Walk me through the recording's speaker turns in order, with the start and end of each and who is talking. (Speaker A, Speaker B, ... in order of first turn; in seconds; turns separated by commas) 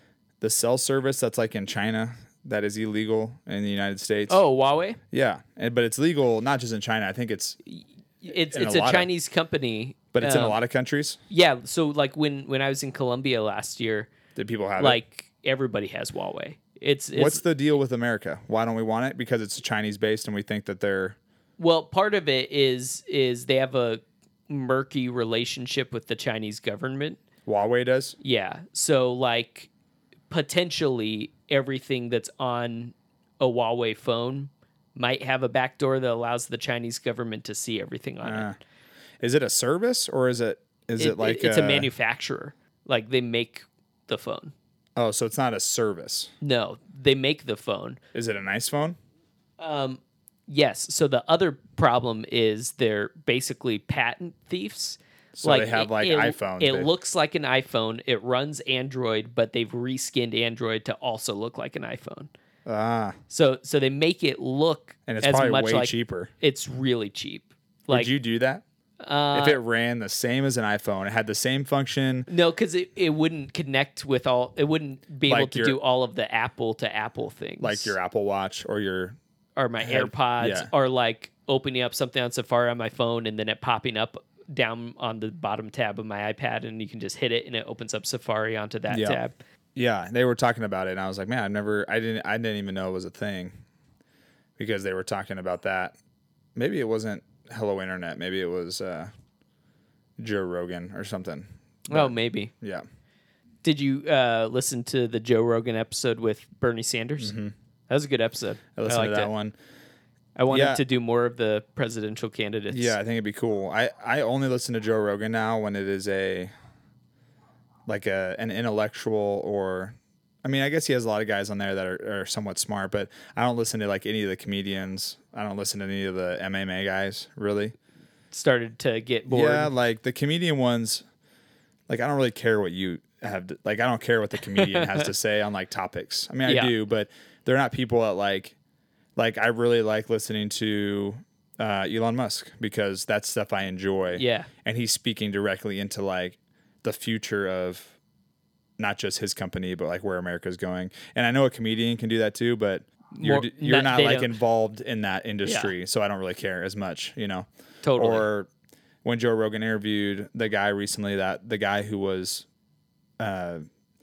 Speaker A: 0.4-4.4, Speaker B: 4.3-5.0, Speaker A: 5.1-7.6, Speaker B: 7.7-10.6, Speaker A: 8.5-9.1, Speaker A: 10.1-11.2, Speaker B: 11.3-14.1, Speaker A: 14.3-15.0, Speaker B: 14.8-17.4, Speaker A: 17.1-21.2, Speaker B: 21.6-27.2, Speaker A: 27.5-28.2, Speaker B: 28.2-29.7, Speaker B: 30.3-38.5, Speaker A: 38.2-38.6, Speaker A: 39.2-41.9, Speaker B: 41.0-44.5, Speaker A: 45.0-46.3, Speaker B: 46.4-48.0, Speaker A: 48.1-49.0, Speaker B: 49.6-62.3, Speaker A: 55.4-56.9, Speaker A: 62.7-63.2, Speaker B: 63.3-68.1, Speaker A: 65.1-66.3, Speaker A: 67.9-68.6, Speaker B: 69.0-69.6, Speaker A: 69.3-72.3, Speaker B: 72.3-78.0, Speaker A: 75.3-75.8, Speaker A: 77.6-79.2, Speaker B: 79.6-89.4, Speaker A: 79.8-80.7, Speaker A: 88.9-89.2, Speaker A: 89.8-93.5, Speaker A: 94.6-96.0, Speaker A: 96.6-99.1, Speaker A: 100.2-102.8, Speaker B: 101.9-102.5, Speaker B: 103.6-107.3, Speaker A: 107.2-107.5, Speaker B: 107.9-109.3, Speaker A: 108.8-109.6, Speaker B: 110.4-113.0, Speaker A: 110.5-110.8, Speaker A: 112.7-116.5, Speaker A: 117.9-127.7, Speaker B: 128.3-129.7, Speaker A: 129.3-131.0, Speaker A: 131.9-138.6, Speaker B: 134.6-135.0, Speaker B: 136.5-136.7, Speaker A: 139.2-147.9, Speaker B: 144.2-144.5, Speaker A: 148.8-158.5, Speaker B: 153.2-154.4, Speaker B: 155.4-155.7, Speaker B: 157.8-158.3, Speaker A: 159.0-162.5, Speaker A: 163.2-163.6